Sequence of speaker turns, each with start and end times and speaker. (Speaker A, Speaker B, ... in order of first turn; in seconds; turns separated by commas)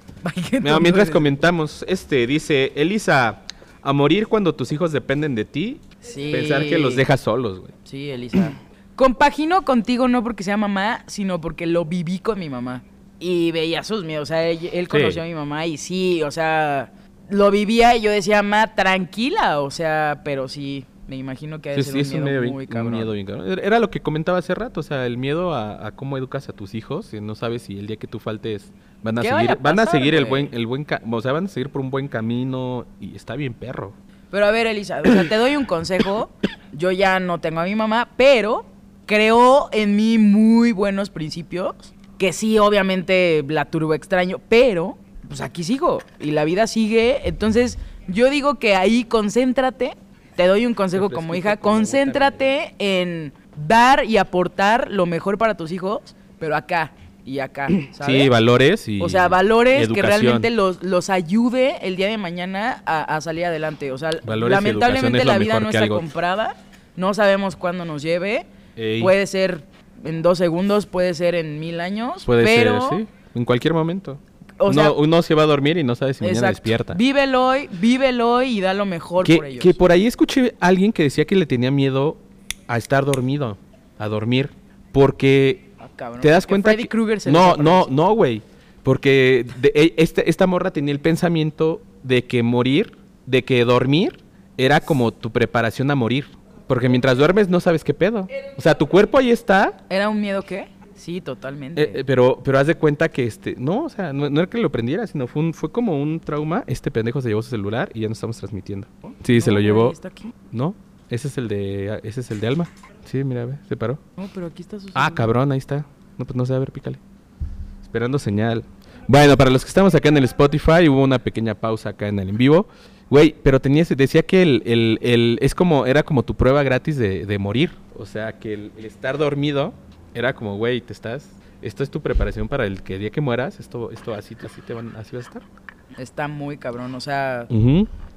Speaker A: 0.2-1.3, Speaker B: 0.6-7.7, Speaker A: 6.0-7.0, Speaker A: 7.8-23.1, Speaker B: 14.9-15.2, Speaker B: 21.7-34.0, Speaker A: 29.2-30.5, Speaker A: 34.3-58.3, Speaker B: 50.9-52.5, Speaker B: 57.9-60.5, Speaker A: 59.0-73.0, Speaker B: 64.2-66.1, Speaker B: 68.8-69.1, Speaker B: 72.2-77.0, Speaker A: 74.6-75.0, Speaker A: 76.2-79.8, Speaker B: 79.2-99.8, Speaker A: 85.8-87.9, Speaker A: 99.9-102.0, Speaker B: 101.8-109.9, Speaker A: 109.1-110.3, Speaker B: 110.5-114.0, Speaker A: 114.2-115.3, Speaker B: 114.9-117.0, Speaker B: 117.8-135.4, Speaker A: 136.0-137.5, Speaker B: 137.5-137.9